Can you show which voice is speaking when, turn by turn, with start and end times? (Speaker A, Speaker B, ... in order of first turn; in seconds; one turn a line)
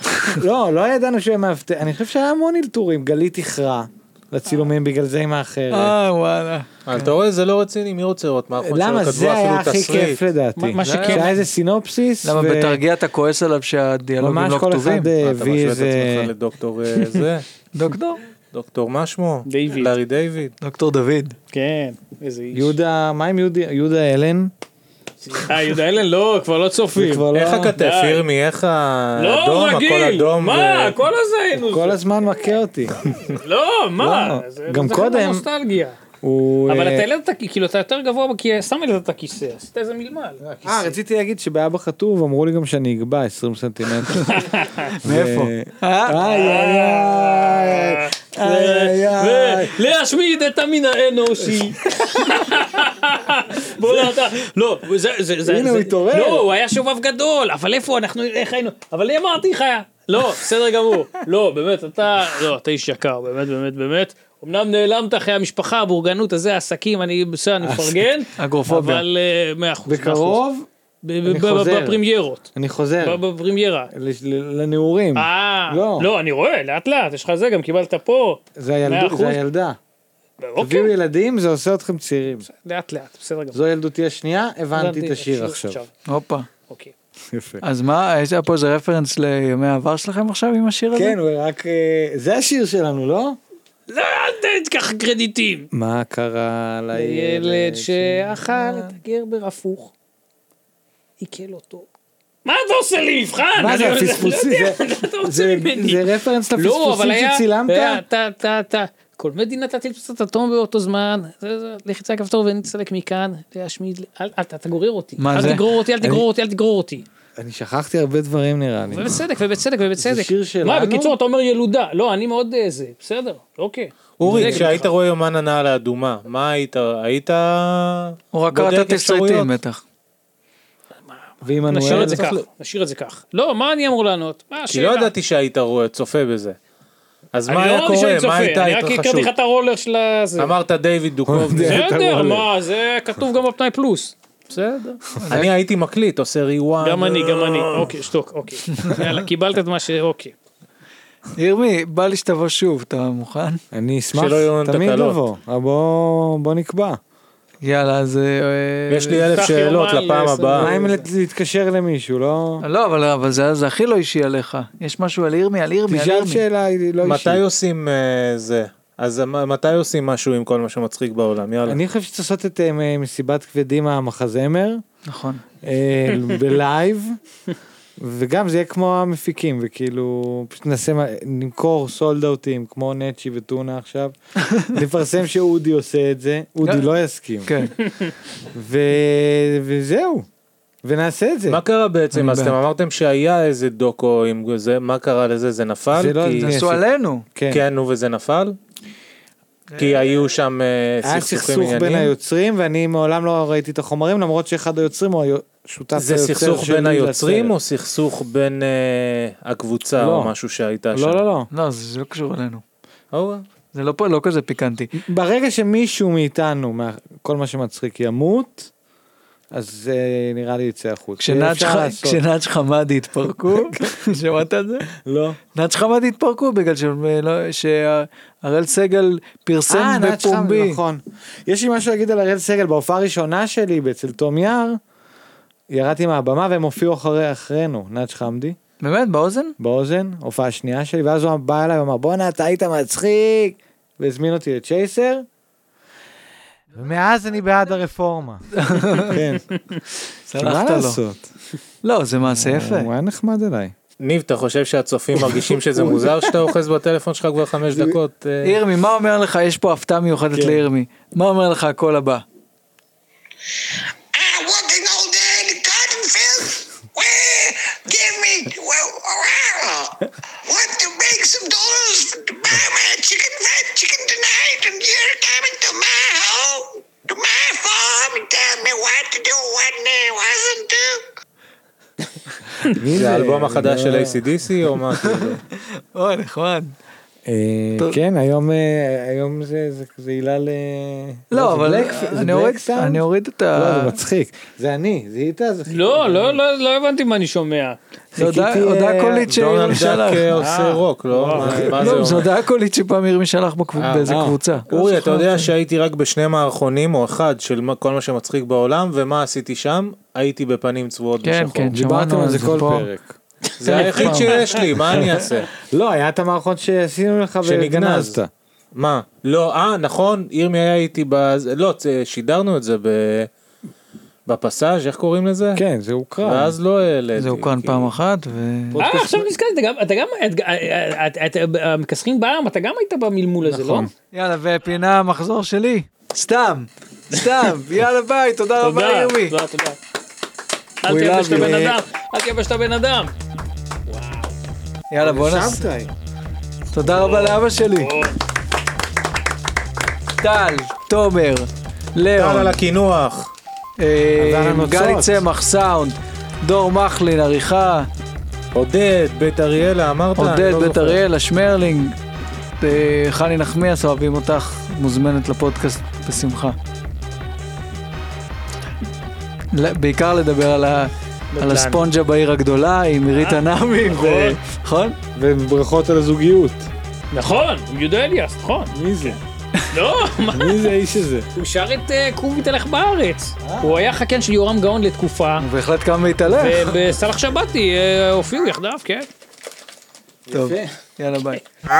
Speaker A: 0.3-5.9
Speaker B: 5.7-7.1
Speaker C: 6.9-10.2
Speaker A: 8.6-12.8
Speaker D: 10.6-11.3
Speaker B: 10.8-11.3
Speaker B: 12.2-15.1
Speaker A: 14.2-16.3
Speaker C: 15.2-17.5
Speaker B: 17.7-18.2
Speaker C: 18.5-20.6
Speaker D: 19.4-19.9
Speaker B: 20.6-21.4
Speaker D: 21.5-22.8
Speaker A: 22.5-24.5
Speaker D: 25.2-28.2
Speaker A: 26.9-27.8
Speaker C: 27.3-31.0
Speaker D: 29.1-32.0
Speaker A: 31.5-33.3
Speaker D: 33.3-36.0
Speaker A: 34.0-35.4
Speaker A: 36.2-37.1
Speaker D: 36.7-41.0
Speaker A: 40.4-49.8
Speaker D: 44.2-44.9
Speaker B: 45.0-46.2
Speaker D: 46.2-70.4
Speaker A: 55.5-56.5
Speaker A: 67.6-68.1
Speaker B: 68.4-69.0
Speaker A: 69.8-70.7
Speaker D: 71.0-72.5
Speaker A: 71.2-72.0
Speaker A: 72.5-73.2
Speaker D: 73.0-73.9
Speaker A: 73.9-76.1
Speaker D: 75.1-79.4
Speaker A: 78.5-79.8
Speaker D: 80.4-80.9
Speaker A: 80.6-82.5
Speaker D: 82.4-83.6
Speaker A: 83.5-85.8
Speaker D: 84.7-85.9
Speaker B: 86.1-86.5
Speaker D: 86.7-86.9
Speaker A: 87.3-87.6
Speaker B: 87.6-91.2
Speaker A: 90.9-93.4
Speaker D: 93.9-95.7
Speaker A: 95.7-98.9
Speaker D: 96.9-99.9
Speaker D: 101.2-101.9
Speaker D: 102.4-117.0
Speaker A: 103.6-108.0
Speaker B: 115.2-115.7
Speaker A: 116.0-116.2
Speaker A: 117.4-119.2
Speaker D: 118.9-124.9
Speaker A: 120.0-121.2
Speaker C: 124.2-129.5
Speaker A: 124.2-124.6
Speaker B: 128.3-129.8
Speaker A: 131.4-132.2
Speaker D: 131.7-135.1
Speaker C: 131.8-132.4
Speaker C: 134.7-136.6
Speaker C: 137.3-139.3
Speaker D: 137.5-140.5
Speaker C: 140.4-142.4
Speaker A: 141.3-142.4
Speaker D: 141.6-145.0
Speaker C: 145.2-147.9
Speaker B: 145.3-145.5
Speaker D: 146.8-150.3
Speaker B: 148.8-149.0
Speaker B: 151.3-153.6
Speaker A: 153.7-157.0
Speaker C: 154.1-155.2
Speaker B: 157.6-159.3
Speaker C: 158.9-160.8
Speaker D: 159.3-161.0
Speaker A: 160.6-162.6
Speaker B: 162.6-166.4
Speaker A: 165.9-167.4
Speaker C: 167.0-171.8
Speaker A: 171.7-174.8
Speaker B: 175.0-175.4
Speaker A: 175.6-177.2
Speaker A: 178.0-187.7
Speaker B: 187.5-187.8
Speaker A: 188.5-190.3
Speaker A: 190.8-191.6
Speaker C: 191.5-196.6
Speaker B: 192.1-192.6
Speaker A: 195.9-196.8
Speaker B: 196.4-197.2
Speaker A: 197.3-197.6
Speaker C: 197.5-198.6
Speaker C: 199.8-202.1
Speaker A: 201.0-207.5
Speaker C: 205.9-211.2
Speaker A: 210.0-210.3
Speaker A: 210.9-211.5
Speaker B: 211.5-212.6
Speaker C: 213.1-213.4
Speaker B: 213.7-214.9
Speaker A: 214.9-218.7
Speaker A: 219.5-222.2
Speaker B: 221.2-224.9
Speaker A: 225.0-225.4
Speaker B: 225.5-230.8
Speaker A: 229.7-234.8
Speaker A: 235.7-238.6
Speaker B: 238.8-239.6
Speaker A: 239.6-245.2
Speaker A: 246.7-249.6
Speaker B: 248.6-249.2
Speaker B: 250.3-251.0
Speaker A: 250.4-251.3
Speaker B: 251.8-252.9
Speaker A: 252.2-253.7
Speaker C: 254.0-258.6
Speaker A: 255.2-256.5
Speaker B: 258.4-262.2
Speaker A: 260.3-260.6
Speaker E: 264.1-281.0
Speaker A: 282.7-284.2
Speaker C: 282.9-285.4
Speaker B: 285.1-286.7
Speaker A: 287.2-296.4
Speaker B: 291.3-293.9
Speaker D: 295.7-297.8
Speaker A: 298.1-300.5
Speaker B: 298.1-300.4
Speaker C: 299.3-302.3
Speaker D: 300.4-301.8
Speaker A: 301.3-302.1
Speaker B: 301.7-305.5
Speaker C: 303.7-311.8
Speaker A: 304.1-304.4
Speaker B: 311.2-312.9
Speaker A: 311.7-313.1
Speaker C: 313.6-315.5
Speaker B: 313.6-314.4
Speaker D: 313.7-314.6
Speaker A: 314.8-318.3
Speaker C: 317.4-318.2
Speaker C: 318.8-323.3
Speaker C: 324.3-325.6
Speaker A: 325.5-326.6
Speaker C: 326.2-327.9
Speaker B: 327.2-328.8
Speaker A: 328.7-329.3
Speaker D: 328.8-333.9
Speaker A: 333.4-333.9
Speaker B: 334.0-339.4
Speaker D: 338.6-339.8
Speaker D: 340.8-343.1
Speaker B: 340.9-341.7
Speaker A: 341.2-341.8
Speaker D: 343.9-344.3
Speaker B: 344.9-345.7
Speaker A: 345.0-345.9
Speaker B: 346.7-347.9
Speaker D: 346.9-348.2
Speaker B: 350.2-352.6
Speaker C: 352.1-353.3
Speaker B: 353.8-357.9
Speaker A: 354.1-355.2
Speaker C: 358.5-361.0
Speaker B: 360.2-362.0
Speaker B: 362.6-366.6
Speaker B: 369.5-375.0
Speaker D: 371.3-371.9
Speaker D: 373.1-374.4
Speaker A: 375.1-376.7
Speaker D: 377.1-379.2
Speaker A: 378.7-379.2
Speaker D: 379.7-380.7
Speaker A: 380.3-381.3
Speaker D: 381.3-385.4
Speaker A: 383.4-383.9
Speaker B: 385.4-386.7
Speaker D: 386.3-389.1
Speaker A: 390.3-390.7
Speaker B: 390.3-391.4